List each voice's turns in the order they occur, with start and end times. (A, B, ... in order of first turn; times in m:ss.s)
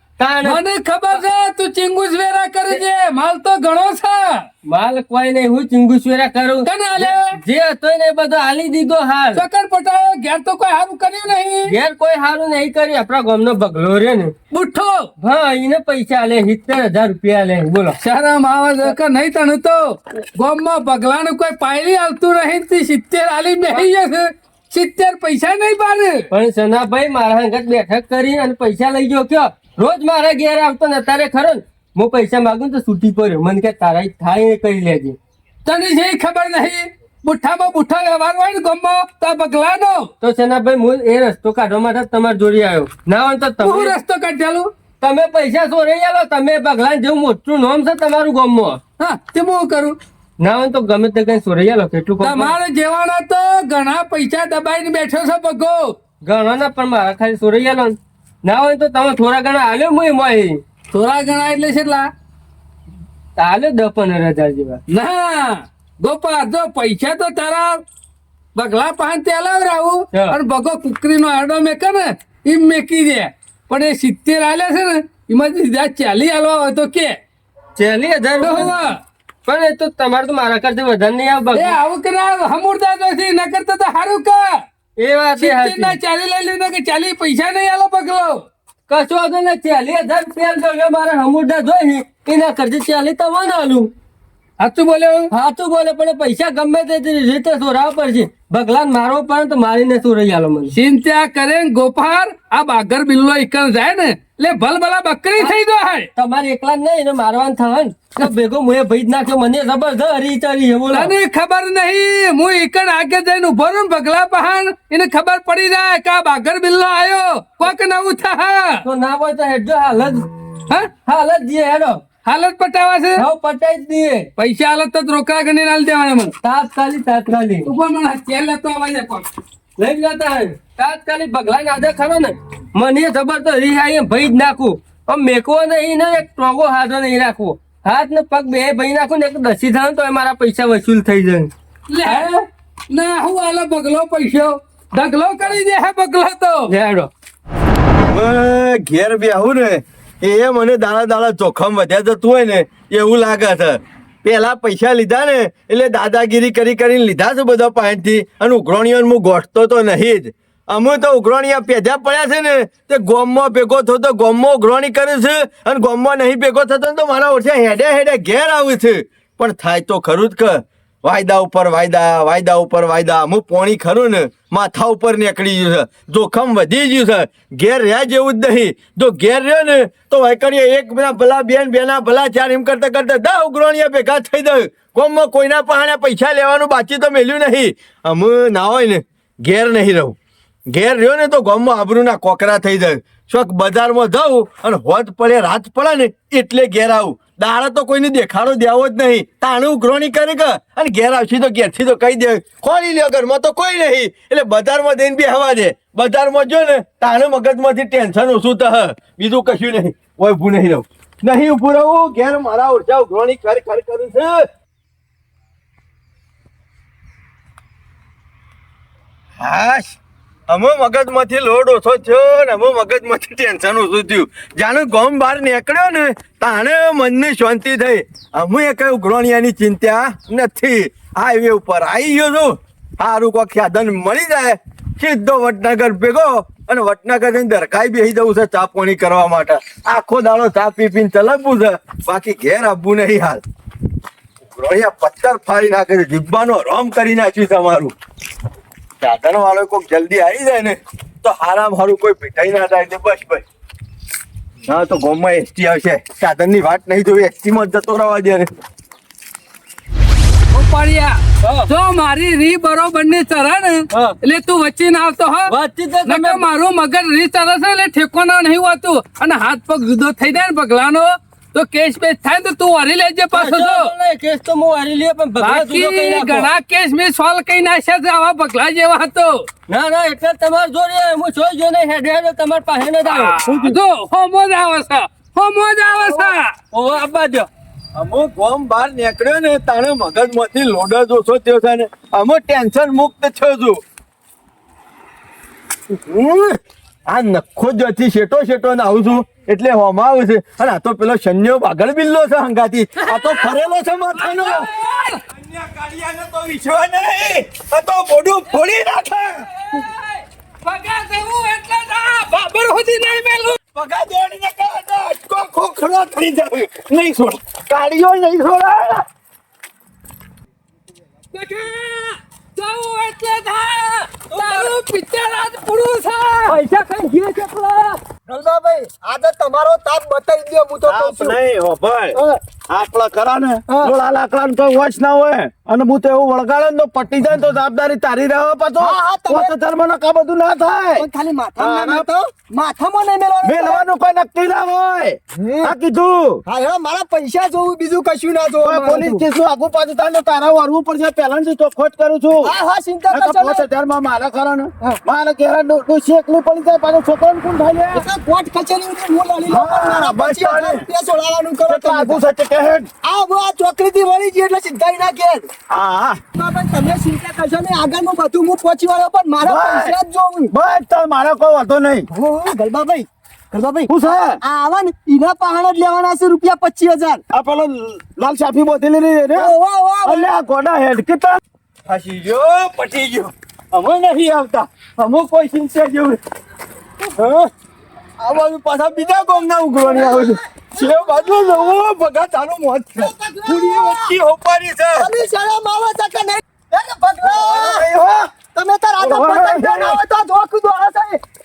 0:00.2-0:00.6 A
0:00.4-0:04.4 B
0:04.6-0:09.4 A
0:06.6-0:07.4 B
0:09.4-0:11.7 B
0:11.7-0:14.3 A
0:14.5-0:15.1 B
0:15.2-0:18.0 A
0:18.0-0:26.3 B
0:26.3-0:35.2 A
0:35.7-0:40.1 B
0:40.2-0:44.0 A
0:43.6-0:44.7 B
0:45.0-0:48.8 A
0:49.0-0:50.0 B
0:50.4-0:52.6 A
0:52.2-0:56.0 B
0:56.2-1:00.6 A
1:00.9-1:02.1 B
1:03.4-1:04.8 A
1:04.9-1:07.8 B
1:08.6-1:17.2 B
1:17.8-1:18.7 A
1:18.4-1:19.0 B
1:19.4-1:21.8 A
1:21.5-1:24.6 B
1:25.0-1:26.0 A
1:25.4-1:28.4 B
1:28.9-1:33.9 A
1:34.6-1:35.3 B
1:35.3-1:40.7 A
1:40.7-1:46.1 B
1:46.2-1:51.1 A
1:50.9-1:58.8 B
1:58.8-2:00.3 A
2:01.0-2:02.1 A
2:02.2-2:03.2 B
2:03.2-2:04.3 A
2:04.4-2:06.3 B
2:06.4-2:07.7 A
2:07.7-2:09.3 B
2:09.8-2:21.5 A
2:21.9-2:26.7 B
2:26.7-2:27.1 A
2:28.1-3:10.2 C
3:10.7-3:34.5 C
3:39.4-3:40.0 C
3:40.5-4:03.4 C
4:04.6-4:07.9 C
4:09.0-4:13.4 C
4:14.7-4:18.5 C
4:20.5-4:25.5 B
4:25.5-4:26.5 A
4:26.0-4:33.9 B
4:33.3-4:36.5 A
4:35.4-4:39.5 B
4:39.7-4:43.8 A
4:43.0-4:46.5 B
4:46.0-4:47.5 A
4:48.0-4:53.8 C
4:56.0-5:04.7 C
5:03.0-5:05.2 B
5:05.3-5:09.4 C
5:09.7-5:10.0 B
5:10.6-5:13.6 B
5:13.8-5:17.5 C
5:16.9-5:19.0 D
5:21.3-5:26.6 B
5:24.2-5:24.8 A
5:26.5-5:28.0 A
5:28.3-5:31.4 E
5:30.9-5:32.2 D
5:32.1-5:32.4 E
5:32.7-5:41.1 D
5:38.8-5:39.5 E
5:41.0-5:43.8 E
5:41.6-5:42.0 D
5:43.4-5:46.4 D
5:45.4-5:45.7 E
5:46.5-5:49.2 E
5:48.6-5:52.5 D
5:52.4-5:53.7 E
5:53.1-5:58.0 D
5:57.9-6:02.2 E
5:59.5-6:00.8 D
6:01.7-6:02.9 D
6:03.0-6:05.5 E
6:05.7-6:06.2 D
6:06.3-6:10.5 E
6:09.4-6:10.0 D
6:10.5-6:12.1 D
6:12.1-6:17.2 E
6:13.9-6:14.4 D
6:17.3-6:19.5 D
6:19.4-6:20.3 E
6:20.0-6:21.4 D
6:21.9-6:26.2 C
6:27.2-6:27.5 C
6:28.3-6:35.1 C
6:29.8-6:31.8 E
6:33.0-6:34.2 E
6:35.0-6:37.9 E
6:37.3-6:38.3 D
6:38.5-6:41.2 E
6:39.0-6:40.0 D